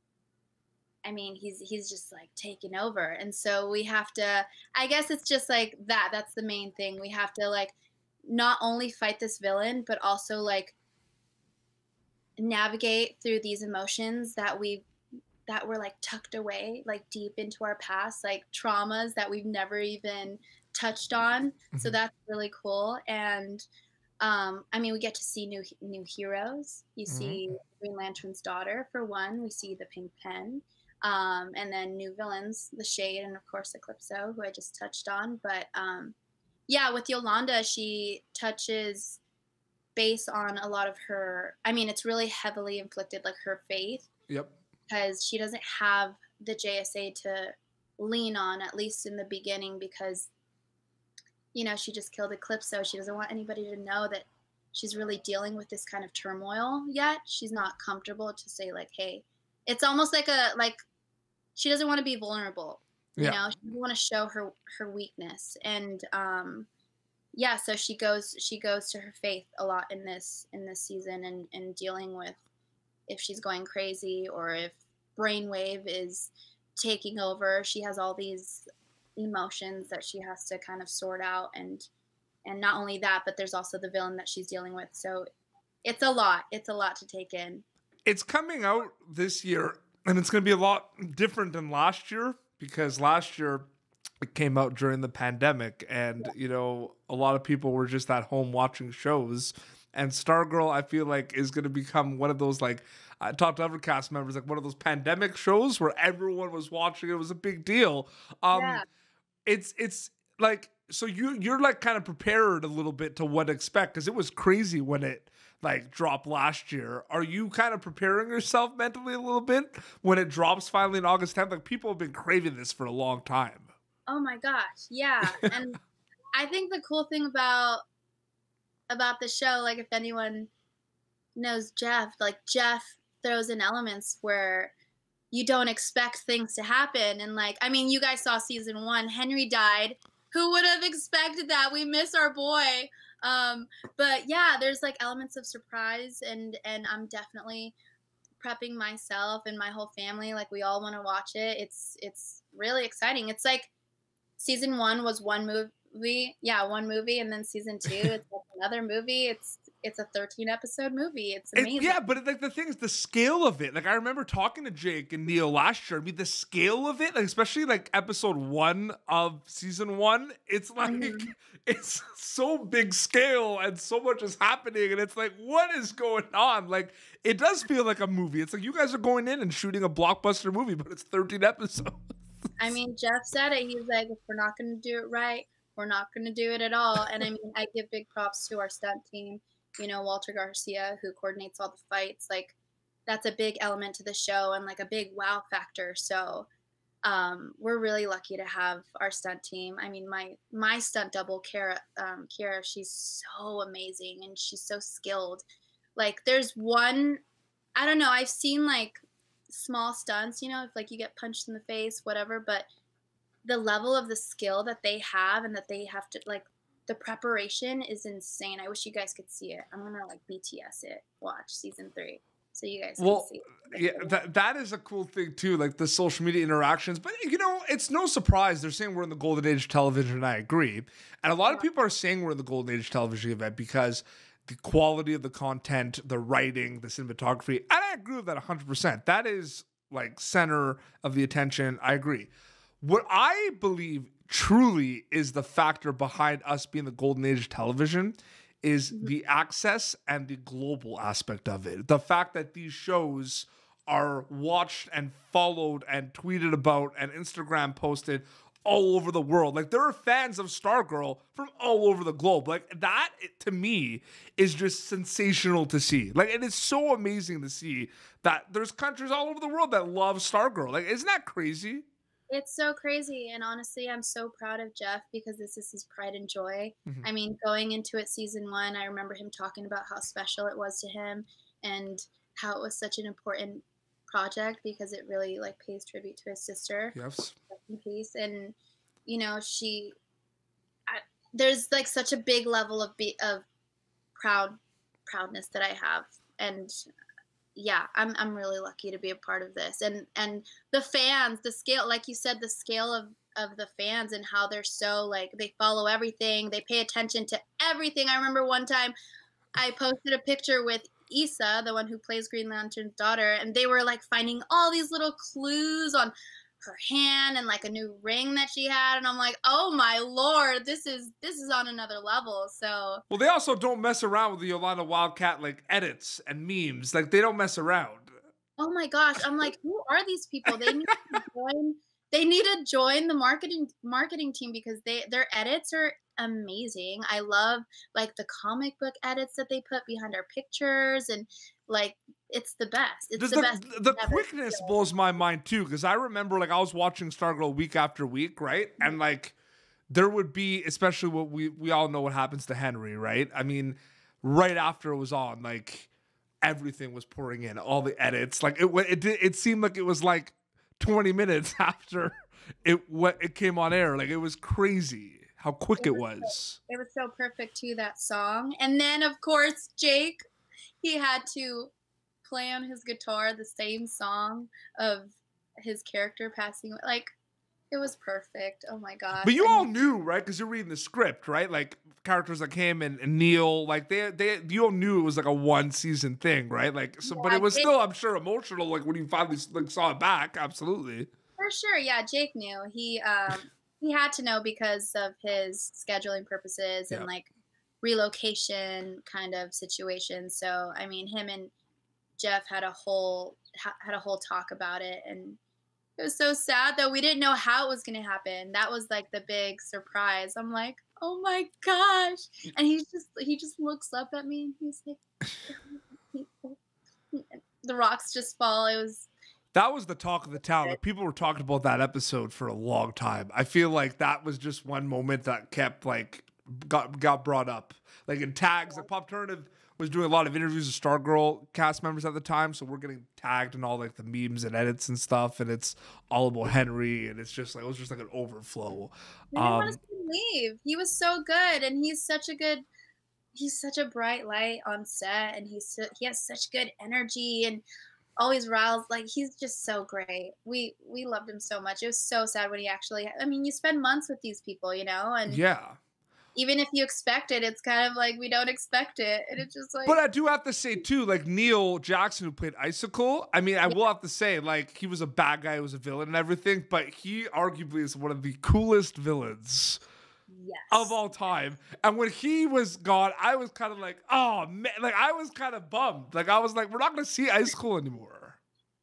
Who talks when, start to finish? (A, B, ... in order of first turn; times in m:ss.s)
0:01.0-0:07.8 A
0:08.3-0:10.8 A
0:12.4-0:14.9 A
0:15.5-0:23.7 A
0:21.7-0:22.0 B
0:24.2-0:36.2 A
0:27.1-0:27.4 B
0:36.7-0:39.2 A
0:40.0-0:44.1 A
0:44.3-0:44.6 B
0:44.9-0:50.3 A
0:51.5-1:00.8 A
1:01.6-1:06.7 A
1:07.3-1:12.4 A
1:13.1-1:18.6 A
1:19.2-1:21.9 A
1:22.4-1:25.3 A
1:25.8-1:27.6 A
1:28.1-1:33.7 B
1:34.2-1:48.8 B
1:48.5-1:48.8 A
1:49.5-2:03.7 B
2:04.1-2:05.8 A
2:06.3-2:07.8 A
2:08.9-2:10.5 A
2:11.4-2:14.7 A
2:15.3-2:27.8 A
2:28.4-2:33.7 A
2:34.4-2:42.2 A
2:41.6-3:02.0 B
2:50.8-2:51.3 A
3:02.6-3:16.5 A
3:17.0-3:25.4 A
3:26.0-3:27.2 A
3:27.8-3:32.7 A
3:33.4-3:44.2 A
3:43.0-4:02.3 B
4:02.8-4:31.8 B
4:32.3-4:47.0 A
4:47.0-4:47.4 B
4:47.5-4:49.9 A
4:50.9-4:53.5 A
4:54.2-4:56.9 A
4:57.6-5:08.9 A
5:09.6-5:23.0 A
5:23.1-5:28.1 B
5:28.6-5:44.8 A
5:30.5-5:30.9 B
5:43.2-5:49.4 B
5:49.9-5:55.9 B
5:56.4-6:02.1 B
6:02.6-6:06.6 B
6:05.8-6:10.2 A
6:10.8-6:11.7 A
6:12.2-6:17.2 A
6:17.7-6:19.7 A
6:19.2-6:31.1 B
6:27.0-6:27.7 A
6:31.4-6:37.3 A
6:37.8-6:41.5 A
6:42.2-6:45.4 A
6:46.0-6:56.6 A
6:57.1-6:59.1 A
6:59.5-7:19.8 B
7:00.4-7:00.8 A
7:19.3-7:22.7 A
7:23.3-7:27.6 A
7:28.2-7:35.4 A
7:35.3-7:35.8 B
7:36.4-7:40.0 A
7:39.8-7:49.8 B
7:50.3-7:51.0 A
7:50.7-7:58.4 B